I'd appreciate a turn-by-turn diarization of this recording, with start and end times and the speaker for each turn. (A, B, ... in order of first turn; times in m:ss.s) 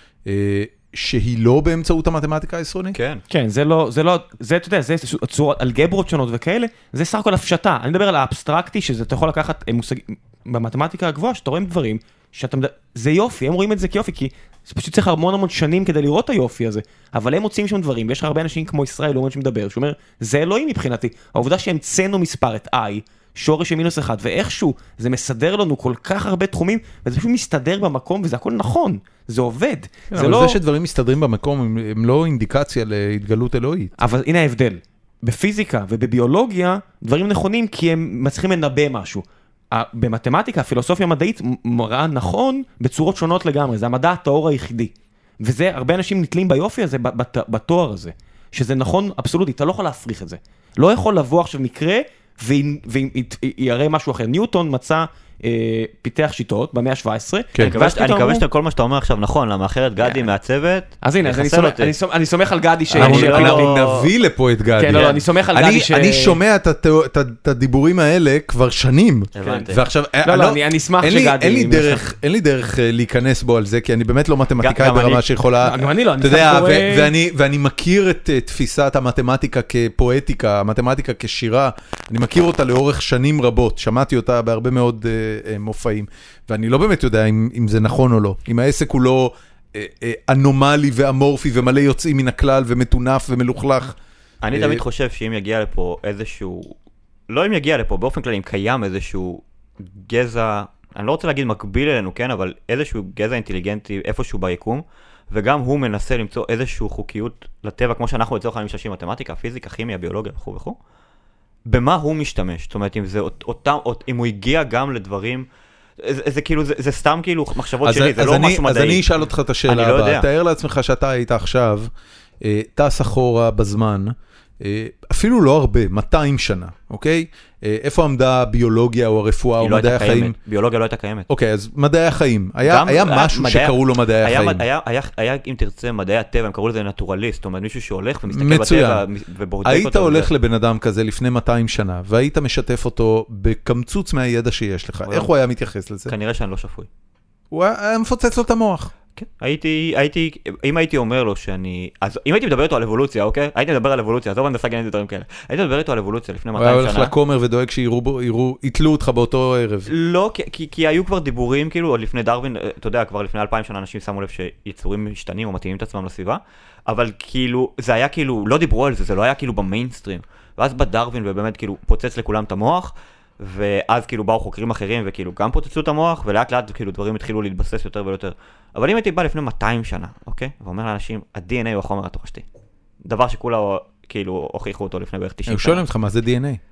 0:00.3-0:03.0 A
0:02.9-0:03.2 B
0:03.3-0:30.6 C
0:30.1-0:33.9 A
0:34.0-0:58.4 C
0:57.6-1:01.9 B
1:01.0-1:03.8 C
1:02.9-1:04.1 B
1:03.0-1:34.0 A
1:04.8-1:06.4 C
1:04.9-1:05.2 B
1:09.4-1:09.8 B
1:09.4-1:09.7 C
1:10.2-1:12.1 C
1:14.6-1:15.3 B
1:15.6-1:17.1 C
1:34.4-1:36.8 B
1:34.5-1:34.8 A
1:37.3-1:50.8 B
1:51.7-1:55.5 B
1:56.0-1:59.1 B
1:57.8-2:01.9 A
1:59.7-2:00.3 B
2:02.4-2:10.4 A
2:09.6-2:11.3 B
2:11.3-2:14.6 A
2:12.7-2:20.3 B
2:18.3-2:19.0 A
2:19.6-2:26.1 A
2:26.1-2:26.9 B
2:27.5-2:28.9 A
2:29.2-2:37.1 B
2:36.6-2:39.9 A
2:39.9-3:02.4 B
3:03.0-3:05.8 B
3:05.5-3:06.6 A